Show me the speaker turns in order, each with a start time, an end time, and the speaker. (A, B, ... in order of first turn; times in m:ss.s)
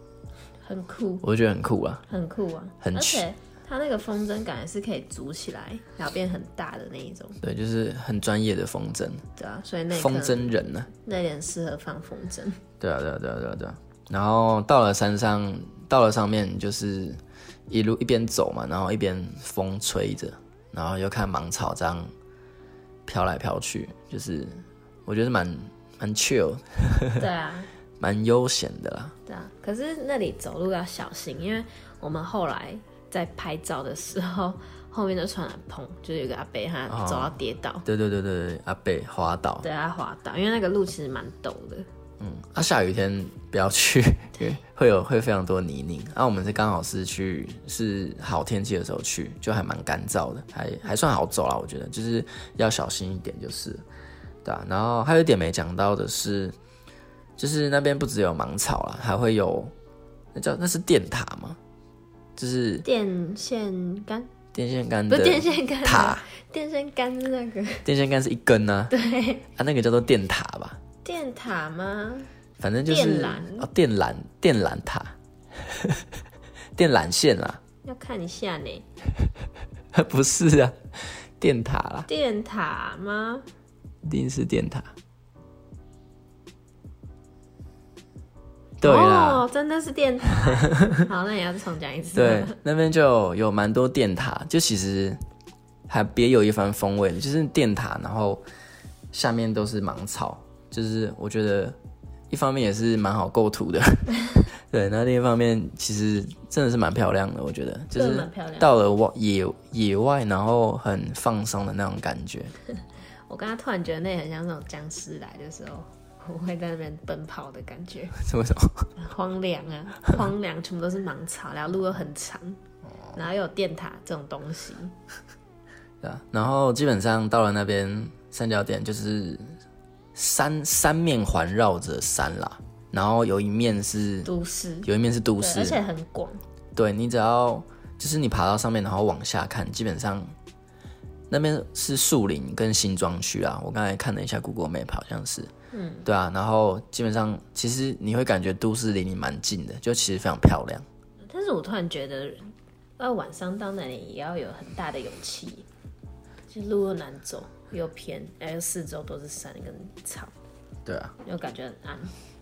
0:00.6-0:01.2 A
0:01.2-0:02.0 B
0:02.1-0:07.4 A
0:02.8-0:03.2 B
0:07.4-0:09.2 B
0:09.4-0:12.6 A
0:09.9-0:10.9 B
0:12.8-0:22.1 B
0:23.1-0:27.2 B
0:27.2-0:27.7 A
0:28.0-0:29.2 B
0:29.3-0:37.8 A
0:36.9-0:39.7 B
0:39.6-0:41.9 A
0:42.2-0:53.8 B
0:54.4-0:56.6 B
0:57.4-0:59.7 B
1:00.3-1:01.6 B
1:02.4-1:02.9 B
1:02.8-1:04.3 A
1:04.5-1:06.2 B
1:05.1-1:07.8 A
1:07.8-1:08.9 B
1:08.9-1:09.4 A
1:09.6-1:10.8 B
1:11.0-1:12.3 A
1:12.6-1:15.1 B
1:12.9-1:13.7 A
1:15.6-1:16.0 B
1:16.8-1:17.6 B
1:17.8-1:18.8 A
1:19.9-1:22.1 B
1:22.1-1:23.5 A
1:24.0-1:24.9 B
1:28.8-1:29.4 B
1:28.8-1:32.6 A
1:30.7-1:31.1 B
1:32.2-1:35.2 B
1:35.9-1:38.4 B
1:39.1-1:41.8 B
1:42.3-1:52.5 B
1:48.0-1:48.7 A
1:53.3-1:58.2 A
1:58.2-1:58.8 B
1:59.0-2:02.6 A
2:03.1-2:04.9 A
2:06.0-2:09.5 B
2:10.1-2:14.3 B
2:14.2-2:16.4 A
2:14.8-2:15.8 B
2:16.8-2:20.3 B
2:21.3-2:25.5 B
2:25.7-2:26.1 A
2:26.0-2:30.8 B
2:31.3-2:35.7 A
2:36.5-2:40.3 A
2:40.9-2:41.2 B
2:41.2-2:42.1 A